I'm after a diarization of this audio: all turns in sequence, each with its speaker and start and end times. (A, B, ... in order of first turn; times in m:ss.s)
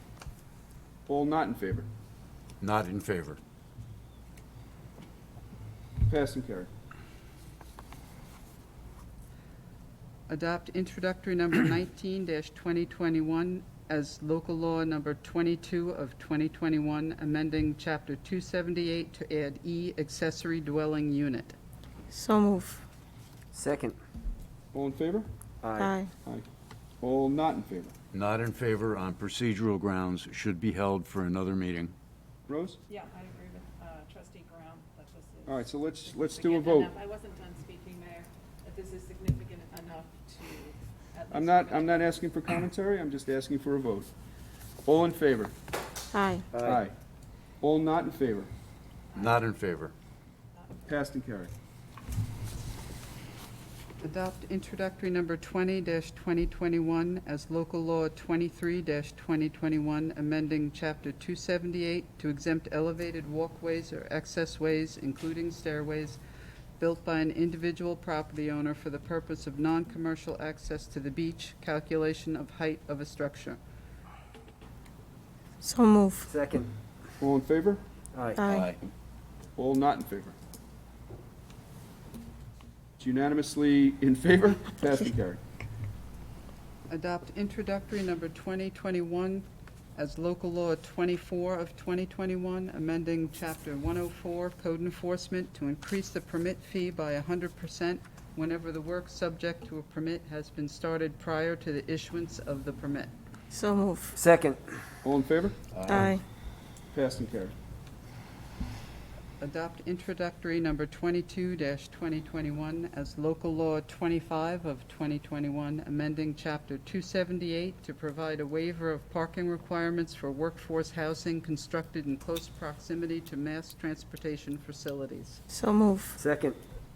0:01.1-0:01.9 A
0:02.6-0:03.4 B
0:06.1-0:06.7 A
0:10.3-0:21.6 C
0:22.1-0:22.8 D
0:23.5-0:24.0 E
0:24.7-0:25.3 A
0:25.6-0:26.0 E
0:25.8-0:26.1 D
0:27.0-0:27.9 A
0:28.1-0:31.9 B
0:32.5-0:32.8 A
0:32.9-0:35.6 F
0:35.5-0:36.9 A
0:36.2-0:42.0 F
0:41.3-0:44.1 A
0:44.8-0:45.5 A
0:46.1-0:46.5 D
0:46.5-0:46.8 E
0:46.6-0:46.9 A
0:47.6-0:48.5 A
0:49.2-0:49.9 B
0:50.8-0:51.5 A
0:54.0-1:06.2 C
1:06.8-1:13.6 C
1:15.6-1:16.3 D
1:16.2-1:16.7 E
1:17.2-1:17.8 A
1:18.1-1:18.4 E
1:18.4-1:18.7 D
1:18.5-1:18.8 B
1:19.6-1:20.4 A
1:23.0-1:25.4 A
1:26.9-1:43.1 C
1:43.5-1:44.2 D
1:44.2-1:44.6 E
1:45.0-1:45.6 A
1:45.9-1:46.2 D
1:46.9-1:47.5 A
1:49.4-2:05.4 C
2:05.5-2:06.2 D
2:06.2-2:06.6 E